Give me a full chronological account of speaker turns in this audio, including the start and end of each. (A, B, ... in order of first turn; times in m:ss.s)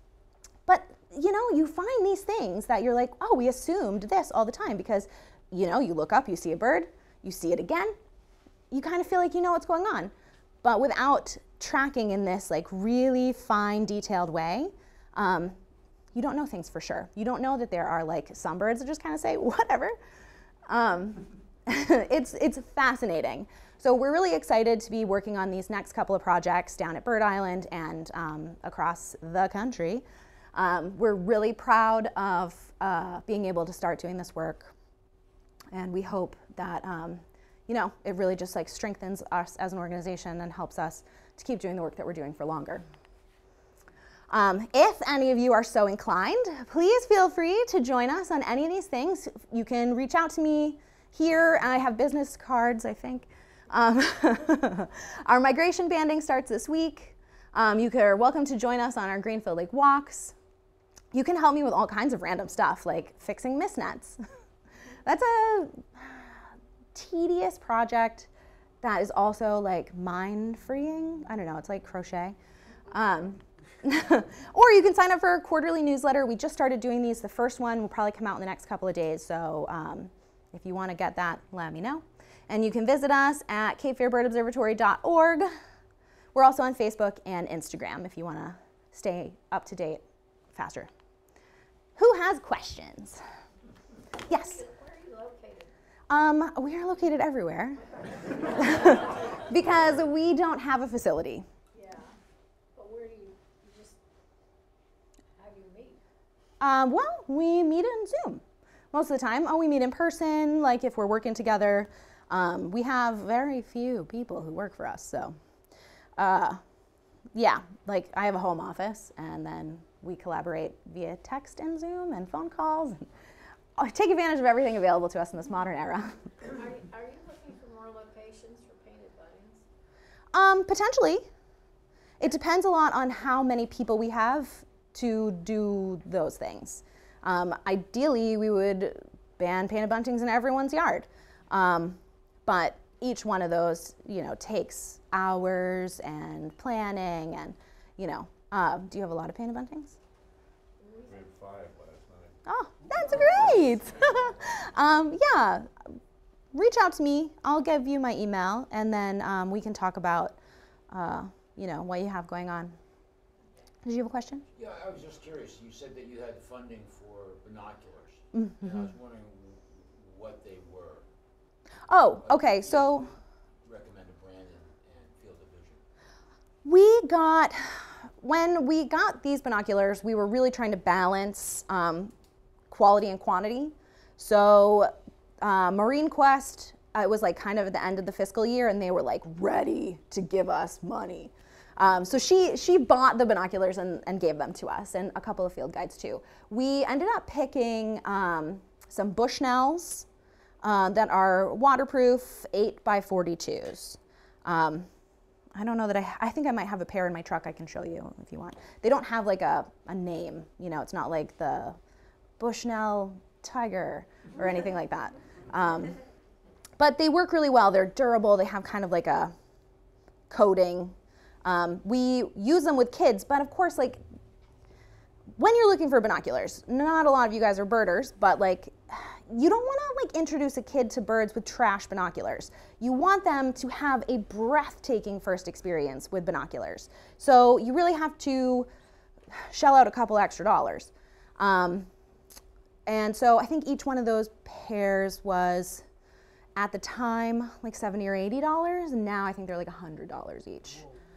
0:00.7-0:08.0 A
0:08.7-0:10.1 A
0:10.6-0:15.6 A
0:16.1-0:20.0 A
0:20.7-0:34.7 A
0:35.7-0:42.8 A
0:44.3-1:00.3 A
1:01.1-1:04.2 A
1:05.0-1:06.4 A
1:06.9-1:08.3 A
1:08.8-1:12.4 A
1:12.9-1:25.5 A
1:26.3-1:30.0 A
1:30.5-1:30.9 A
1:32.0-1:33.2 A
1:34.3-1:35.7 B
1:34.3-1:34.6 A
1:36.1-1:37.8 A
1:38.6-1:41.4 A
1:41.7-1:42.2 B
1:42.7-1:44.0 B
1:45.4-1:46.0 B
1:46.6-1:48.4 A
1:48.9-1:55.4 A
1:56.2-1:56.6 A
1:57.4-2:03.0 A
2:03.8-2:06.2 A
2:06.5-2:09.6 B
2:10.3-2:11.3 A
2:12.2-2:30.0 A
2:30.8-2:31.2 B
2:31.0-2:32.4 C
2:32.5-2:35.7 A
2:33.1-2:33.4 B
2:33.1-2:34.6 C
2:36.5-2:40.4 A
2:40.9-2:42.8 A
2:43.8-2:44.4 A
2:44.6-2:51.1 D
2:48.3-2:48.9 A
2:51.9-2:53.1 A
2:52.2-2:55.8 D
2:56.6-3:02.1 A
3:02.7-3:20.1 A
3:20.6-3:24.9 A
3:25.6-3:31.8 A
3:32.4-3:36.0 A
3:36.8-3:39.3 A
3:40.3-3:44.0 A
3:45.4-3:58.7 A
3:59.3-4:01.9 A
4:02.9-4:05.8 A
4:06.6-4:10.8 A